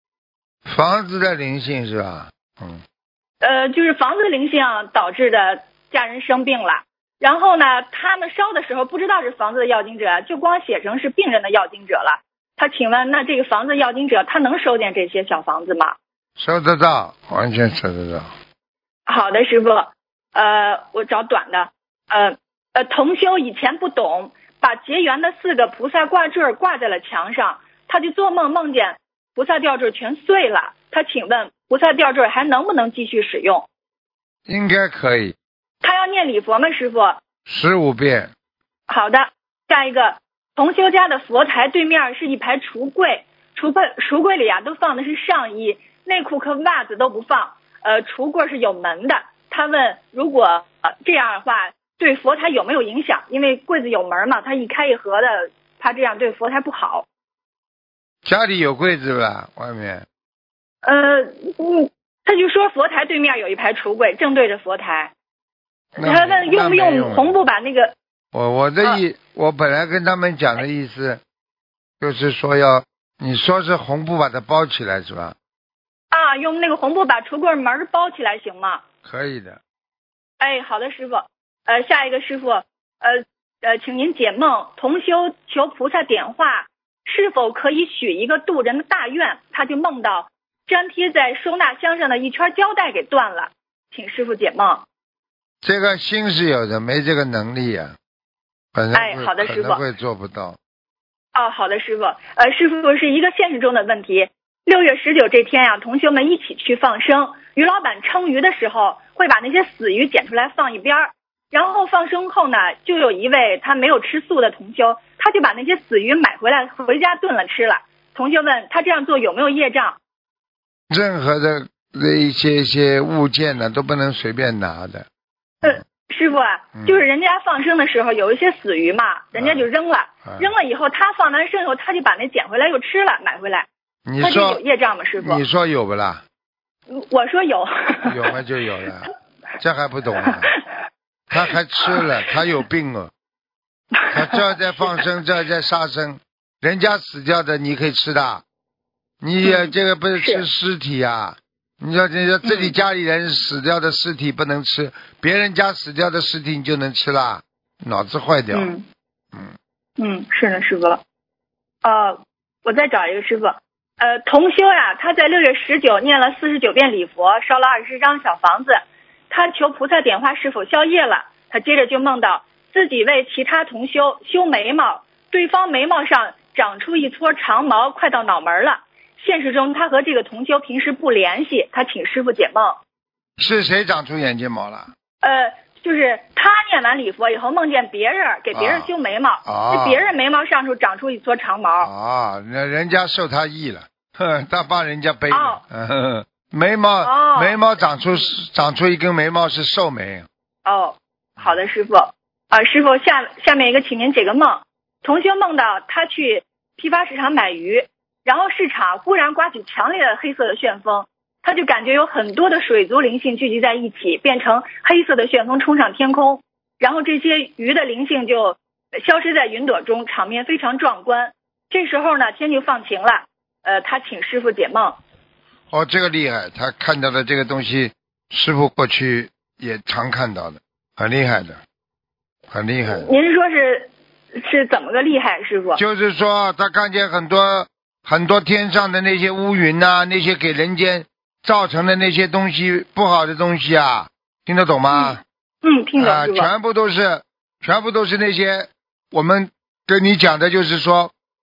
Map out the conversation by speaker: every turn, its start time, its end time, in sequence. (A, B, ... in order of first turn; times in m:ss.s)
0:00.6-0:02.8 A
0:03.4-0:16.0 B
0:16.4-0:18.3 A
0:19.1-0:33.6 B
0:34.4-0:35.3 A
0:35.8-0:37.2 B
0:37.4-0:38.3 A
0:38.9-0:57.0 B
0:58.2-1:00.0 A
1:00.8-1:05.1 B
1:06.0-1:07.4 A
1:06.0-1:07.9 B
1:08.3-1:11.2 A
1:12.0-1:15.3 A
1:16.1-1:18.8 B
1:19.0-1:19.6 A
1:20.4-1:34.8 B
1:35.6-1:37.9 A
1:38.7-1:40.6 A
1:38.9-1:39.8 B
1:41.3-2:00.0 B
2:00.9-2:05.0 A
2:05.6-2:13.7 B
2:06.7-2:07.0 A
2:09.3-2:09.6 A
2:14.0-2:14.6 A
2:14.2-2:15.4 B
2:15.2-2:16.2 A
2:16.9-2:18.3 B
2:18.0-2:20.5 A
2:20.2-2:20.6 B
2:21.3-2:23.1 A
2:24.0-2:24.4 B
2:24.1-2:28.4 A
2:29.2-2:38.7 A
2:29.4-2:30.4 B
2:32.4-2:32.7 B
2:38.5-2:38.8 B
2:40.0-2:41.0 B
2:41.8-3:02.8 B
3:03.4-3:04.9 A
3:05.2-3:11.9 B
3:08.5-3:08.9 A
3:09.4-3:10.0 A
3:11.8-3:20.3 A
3:15.3-3:15.6 B
3:17.0-3:17.6 B
3:20.6-3:45.0 B
3:45.7-3:51.6 A
3:52.5-3:53.1 A
3:52.9-3:55.8 B
3:55.8-4:05.2 A
4:04.9-4:06.5 B
4:06.0-4:11.1 A